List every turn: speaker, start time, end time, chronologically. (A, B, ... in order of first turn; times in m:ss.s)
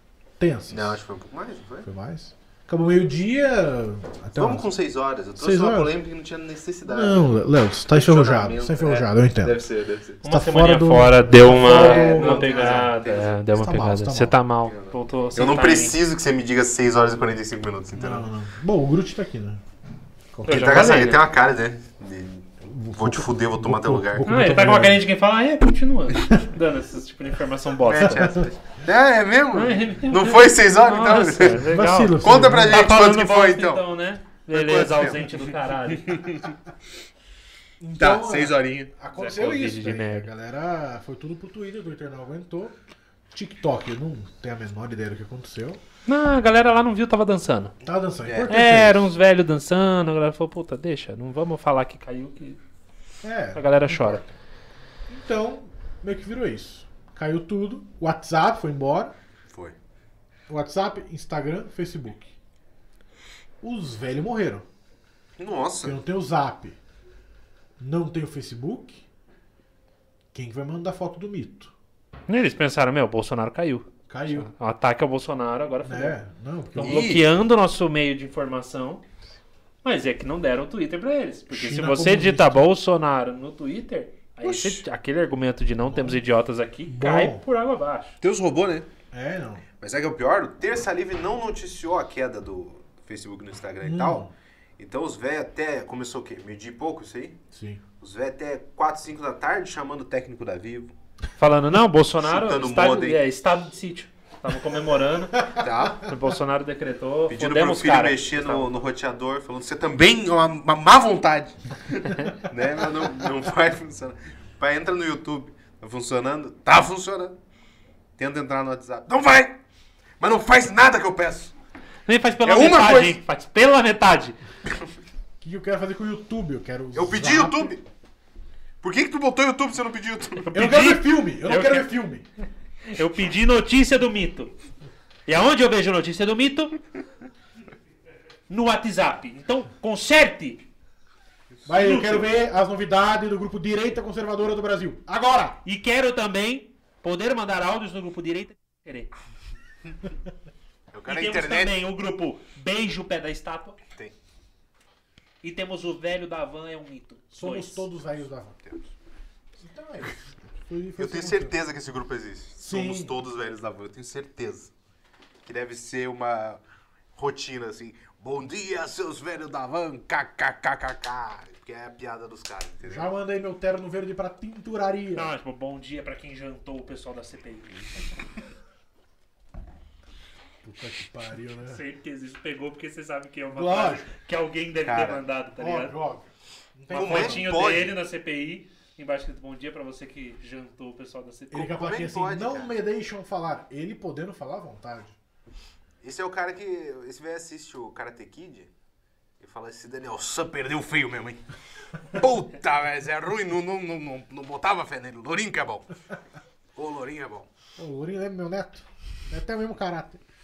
0:00.4-0:01.0 A
0:00.7-0:01.9 B
0:01.8-0:04.7 A
0:04.4-0:07.4 B
0:05.4-0:06.0 A
0:06.9-0:09.6 A
0:07.9-0:10.2 B
0:10.2-0:12.9 A
0:10.2-0:16.0 C
0:11.5-0:13.4 B
0:13.5-0:14.4 A
0:14.6-0:18.3 B
0:18.0-0:19.6 A
0:20.3-0:20.9 A
0:20.4-0:21.2 C
0:20.5-0:24.3 B
0:22.6-0:25.0 A
0:24.2-0:28.4 C
0:27.8-0:33.8 B
0:28.0-0:28.4 A
0:29.5-0:36.3 C
0:31.6-0:32.8 A
0:34.5-0:36.6 B
0:37.8-0:42.8 A
0:38.0-0:38.9 B
0:39.1-0:40.3 C
0:43.3-0:45.8 A
0:46.1-0:47.7 C
0:47.8-0:49.1 A
0:48.5-0:52.6 C
0:53.2-0:54.3 A
0:53.6-0:54.2 C
0:55.1-0:59.1 A
0:59.5-0:59.8 B
1:00.5-1:02.3 A
1:03.6-1:04.6 A
1:05.4-1:06.0 B
1:05.8-1:06.8 A
1:07.8-1:09.0 A
1:10.3-1:11.7 A
1:12.3-1:16.2 C
1:14.1-1:14.5 A
1:15.8-1:17.2 A
1:16.8-1:19.0 C
1:16.8-1:17.3 B
1:19.8-1:28.2 C
1:21.5-1:22.7 A
1:24.4-1:24.8 B
1:25.9-1:26.2 A
1:26.9-1:27.4 A
1:28.2-1:28.9 B
1:29.1-1:29.6 A
1:29.8-1:37.4 B
1:33.8-1:34.3 A
1:37.5-1:37.8 A
1:38.0-1:40.9 B
1:41.4-1:48.7 C
1:42.2-1:43.2 B
1:45.6-1:46.1 B
1:47.3-1:57.4 B
1:52.1-1:52.3 C
1:58.2-1:59.6 B
2:00.2-2:01.5 B
2:02.1-2:04.4 C
2:02.4-2:03.2 B
2:05.4-2:07.7 A
2:06.9-2:07.8 B
2:08.8-2:10.5 B
2:10.4-2:12.0 C
2:10.5-2:12.2 A
2:12.8-2:14.5 C
2:15.3-2:16.7 C
2:18.5-2:20.6 C
2:21.7-2:25.6 A
2:21.7-2:22.3 C
2:25.6-2:29.1 C
2:30.9-2:31.8 B
2:31.1-2:33.8 C
2:35.4-2:37.9 C
2:37.3-2:38.6 A
2:39.6-2:41.5 A
2:41.0-2:44.7 B
2:42.6-2:43.2 A
2:45.4-2:46.6 B
2:47.2-2:53.1 B
2:52.8-2:55.3 A
2:55.2-2:58.1 C
3:00.6-3:01.8 A
3:01.7-3:06.0 C
3:03.5-3:04.1 A
3:04.8-3:05.2 B
3:05.6-3:07.5 A
3:06.9-3:11.8 C
3:06.9-3:08.0 B
3:11.5-3:15.2 A
3:11.6-3:12.7 B
3:16.0-3:18.7 B
3:19.4-3:21.4 B
3:22.0-3:26.0 B
3:26.8-3:27.5 B
3:27.8-3:30.2 A